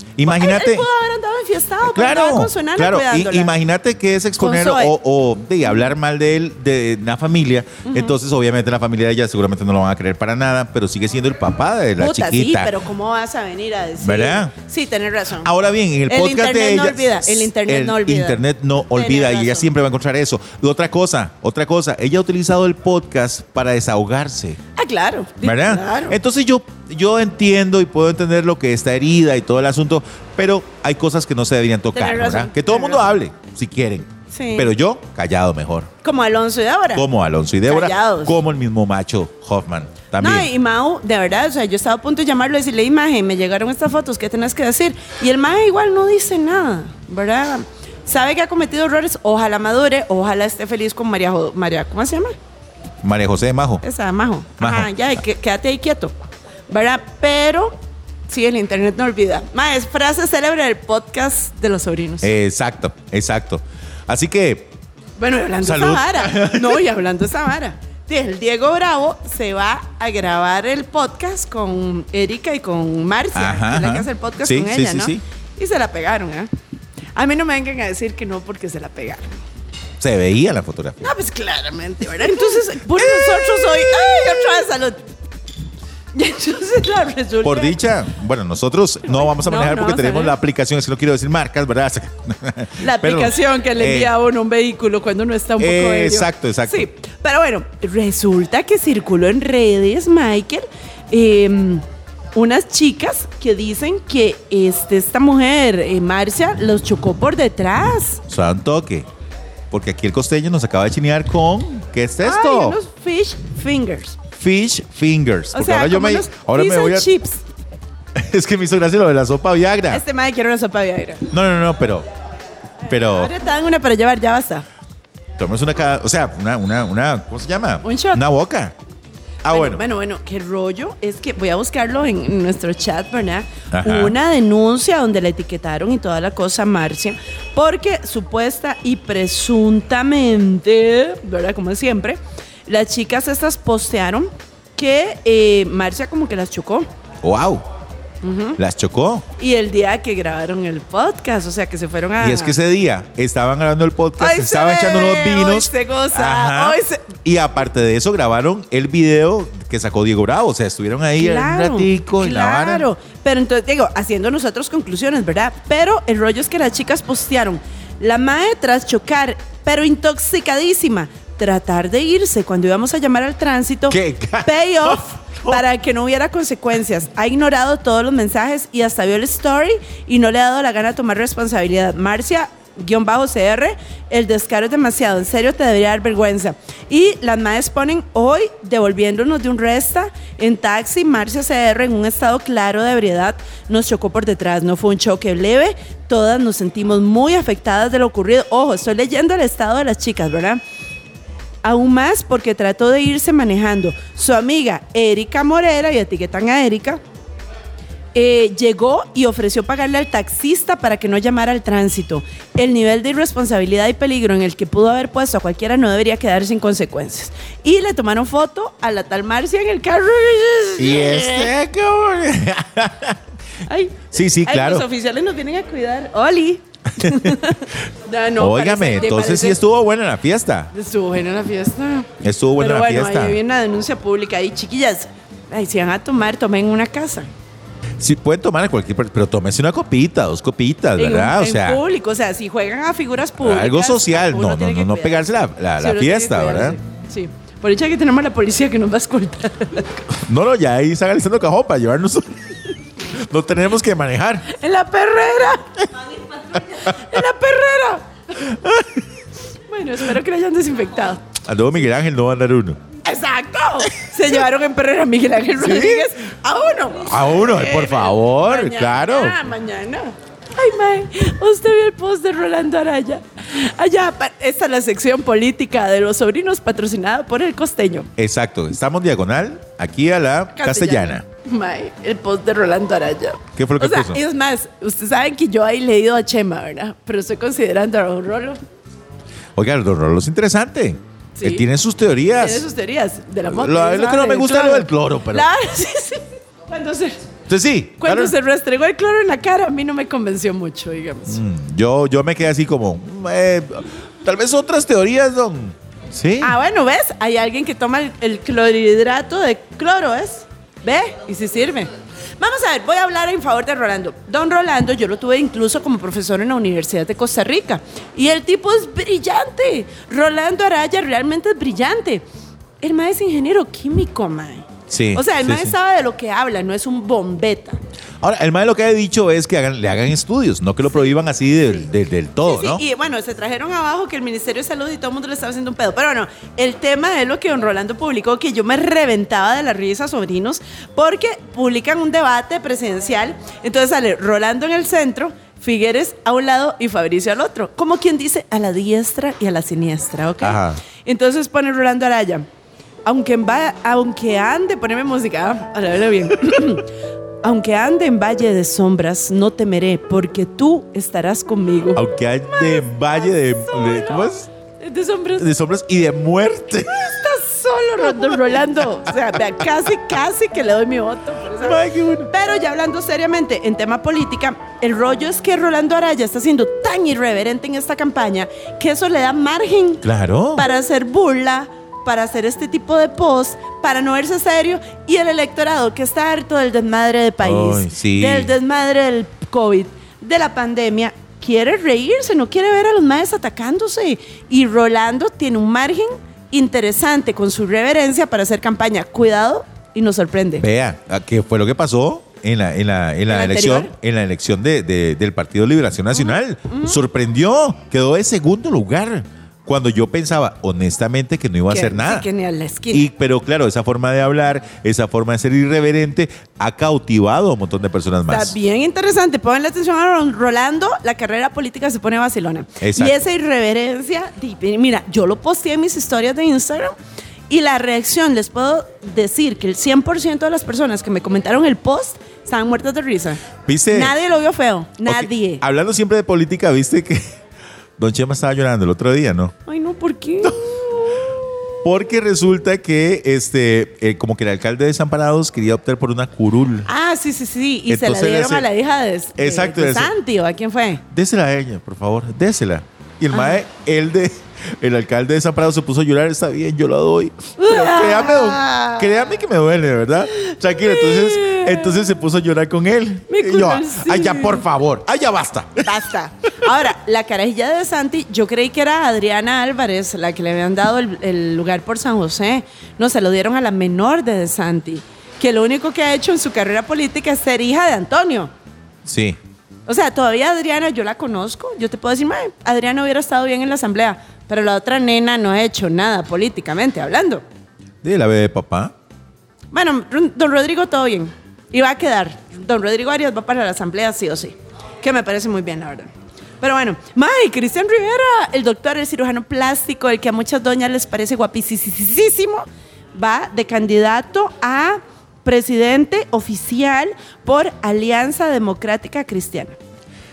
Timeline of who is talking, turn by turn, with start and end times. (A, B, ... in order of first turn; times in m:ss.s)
0:00.2-0:00.9 A
0:00.2-0:03.5 B
0:01.8-0:12.7 A
0:04.4-0:04.9 B
0:07.8-0:08.2 B
0:12.0-0:15.5 B
0:14.0-0:14.5 A
0:15.4-0:24.6 A
0:16.1-0:18.4 B
0:18.9-0:19.7 B
0:24.8-0:26.2 B
0:25.4-0:35.9 A
0:31.9-0:33.0 B
0:34.3-0:34.7 B
0:36.0-0:37.0 B
0:36.9-0:40.5 A
0:37.6-0:38.3 B
0:40.2-0:52.3 B
0:53.0-0:53.8 A
0:53.8-0:56.1 B
0:54.6-0:54.9 A
0:56.7-0:57.7 B
0:58.3-1:02.3 B
1:02.2-1:04.7 A
1:05.2-1:16.5 B
1:05.6-1:06.8 A
1:13.3-1:15.2 A
1:17.2-1:19.4 B
1:20.0-1:21.1 A
1:21.0-1:25.1 B
1:22.9-1:24.6 A
1:26.1-1:27.8 B
1:27.4-1:34.1 A
1:29.1-1:30.3 B
1:32.8-1:48.2 B
1:35.6-1:36.9 A
1:48.3-1:49.1 A
1:49.7-1:52.8 A
1:52.2-1:54.2 B
1:54.4-1:57.1 A
1:55.5-1:57.4 B
1:58.1-2:00.0 A
1:59.9-2:01.3 B
2:01.3-2:02.1 A
2:02.8-2:03.3 A
2:03.1-2:04.6 B
2:05.4-2:08.7 A
2:07.8-2:08.2 B
2:09.4-2:09.8 A
2:09.5-2:26.9 B
2:13.7-2:14.2 A
2:27.2-2:27.6 A
2:28.2-2:28.6 B
2:28.6-2:29.3 A
2:29.4-2:32.6 B
2:32.2-2:42.9 A
2:34.2-2:37.1 B
2:41.2-3:20.6 B
2:53.9-2:55.6 A
3:21.6-3:27.0 B
3:28.1-3:41.5 B
3:40.8-3:43.2 A
3:43.7-3:49.6 B
3:44.1-3:44.9 A
3:47.0-3:47.4 A
3:48.4-3:50.7 A
3:50.7-3:57.3 B
3:52.2-3:53.4 A
3:58.0-4:01.8 A
4:01.0-4:05.2 B
4:03.4-4:06.8 A
4:05.8-4:10.0 B
4:10.1-4:14.5 A
4:14.5-4:18.0 B
4:16.7-4:17.2 A
4:18.3-4:19.1 A
4:19.7-4:21.2 B
4:21.4-4:22.8 A
4:23.0-4:38.1 B
4:25.6-4:26.1 A
4:27.0-4:29.4 A
4:38.2-4:41.2 A
4:40.5-4:48.6 B
4:43.6-4:44.2 A
4:49.6-4:52.6 A
4:51.4-4:51.6 B
4:52.4-4:57.2 B
4:53.5-4:55.5 A
4:57.5-4:58.3 A
4:58.0-5:01.4 B
5:01.3-5:06.6 A
5:06.4-5:22.2 B
5:22.8-5:27.8 B
5:24.9-5:25.8 A
5:28.2-5:32.8 A
5:32.4-5:52.4 B
5:50.4-5:50.8 A
5:53.0-5:56.9 B
5:57.4-6:05.4 B
6:01.9-6:04.5 A
6:05.4-6:07.2 A
6:06.9-6:40.6 B
6:08.0-6:09.4 A
6:11.6-6:12.3 A
6:20.0-6:20.6 A
6:27.4-6:28.5 A
6:40.6-6:52.3 A
6:43.3-6:43.9 B
6:46.1-6:47.0 B
6:51.7-6:53.1 B
6:52.9-6:58.6 A
6:58.3-7:07.0 B
7:02.8-7:03.2 A
7:07.5-7:15.6 B
7:13.6-7:14.1 A
7:15.0-7:17.2 A
7:18.0-7:19.5 A
7:19.7-7:21.3 B
7:21.8-7:26.9 A
7:26.8-7:31.0 B
7:27.9-7:28.7 A
7:29.4-7:30.1 A
7:31.1-7:45.9 A
7:33.3-7:33.6 B
7:37.6-7:39.2 B
7:40.3-7:42.0 B
7:43.3-7:44.6 B
7:45.8-7:58.5 B
7:59.0-7:59.4 A
7:59.9-8:07.4 B
8:08.0-8:08.9 A
8:09.7-8:29.8 B